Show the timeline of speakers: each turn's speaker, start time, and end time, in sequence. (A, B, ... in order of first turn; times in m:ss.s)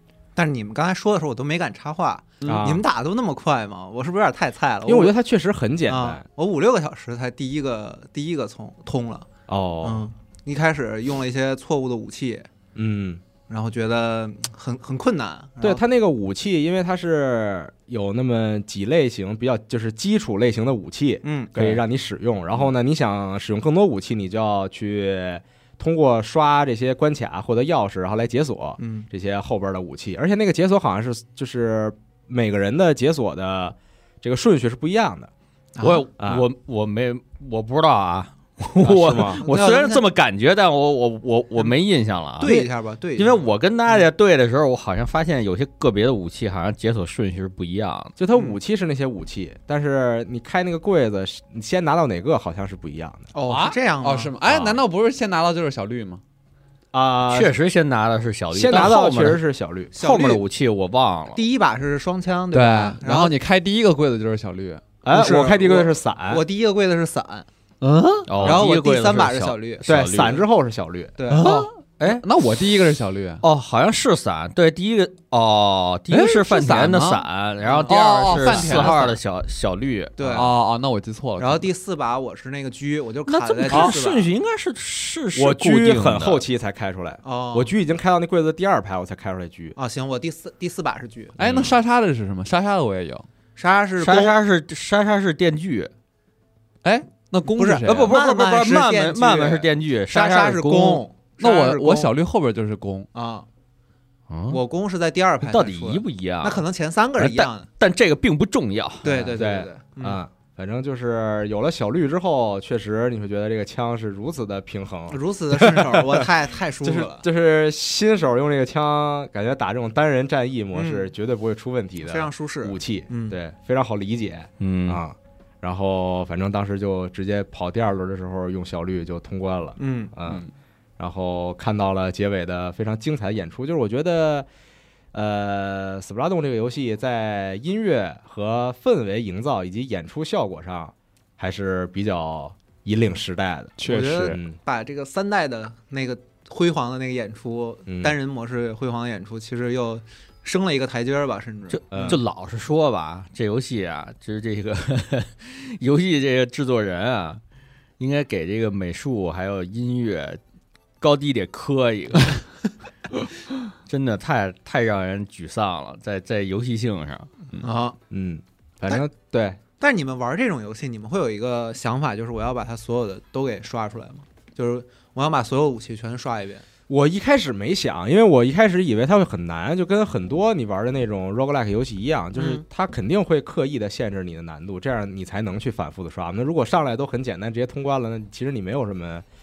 0:00.4-0:05.1 A
0:02.4-0:02.7 B
0:02.4-0:02.8 C
0:04.8-0:06.2 C
0:05.8-0:09.3 A
0:09.5-0:10.0 C
0:09.8-0:12.5 A
0:12.7-0:13.2 C
0:13.5-0:15.8 A
0:15.6-0:35.3 C
0:21.2-0:21.7 A
0:28.8-0:29.1 A
0:35.8-0:36.0 A
0:35.8-0:48.1 D
0:36.2-0:36.4 C
0:38.8-0:39.4 C
0:39.4-0:40.0 A
0:42.4-0:44.1 A
0:48.2-0:53.3 C
0:53.3-0:54.3 A
0:53.5-0:56.2 B
0:54.5-0:54.8 C
0:56.9-0:57.5 C
0:57.3-0:59.4 D
0:58.5-1:00.1 C
0:59.9-1:00.4 A
1:00.0-1:01.4 D
1:01.3-1:03.3 A
1:02.5-1:04.8 B
1:05.0-1:06.4 C
1:05.1-1:07.5 A
1:08.2-1:10.4 D
1:08.4-1:09.8 A
1:08.4-1:08.6 C
1:09.8-1:11.5 C
1:11.2-1:11.6 A
1:11.3-1:12.2 D
1:11.4-1:13.4 B
1:13.4-1:20.2 D
1:16.1-1:17.2 B
1:17.6-1:19.0 A
1:17.9-1:19.2 B
1:20.2-1:20.5 A
1:20.3-1:21.7 B
1:21.4-1:24.3 A
1:23.3-1:26.4 D
1:25.3-1:29.8 C
1:27.2-1:27.7 A
1:29.8-1:31.4 A
1:31.4-1:33.2 B
1:31.4-1:31.7 D
1:33.6-1:34.4 A
1:34.0-1:35.9 D
1:36.8-1:38.1 B
1:37.6-1:42.1 A
1:37.8-1:41.0 D
1:41.4-1:43.1 B
1:43.1-1:43.4 A
1:44.3-1:44.6 D
1:44.5-1:47.7 A
1:45.4-1:46.6 D
1:47.2-1:49.2 D
1:49.0-1:50.2 A
1:49.3-1:56.3 C
1:55.1-1:57.2 A
1:56.8-2:10.4 C
2:00.7-2:01.1 A
2:02.0-2:03.4 A
2:04.6-2:05.0 D
2:09.8-2:10.1 A
2:11.0-2:14.5 C
2:15.1-2:24.6 C
2:23.8-2:24.4 B
2:23.8-2:32.2 A
2:27.9-2:28.2 C
2:31.7-2:37.4 D
2:31.9-2:32.2 C
2:38.0-2:40.4 D
2:41.0-2:42.4 D
2:43.8-2:47.6 D
2:47.6-2:48.0 A
2:48.1-2:49.6 C
2:49.8-2:56.6 A
2:56.9-3:09.2 C
3:02.3-3:02.6 A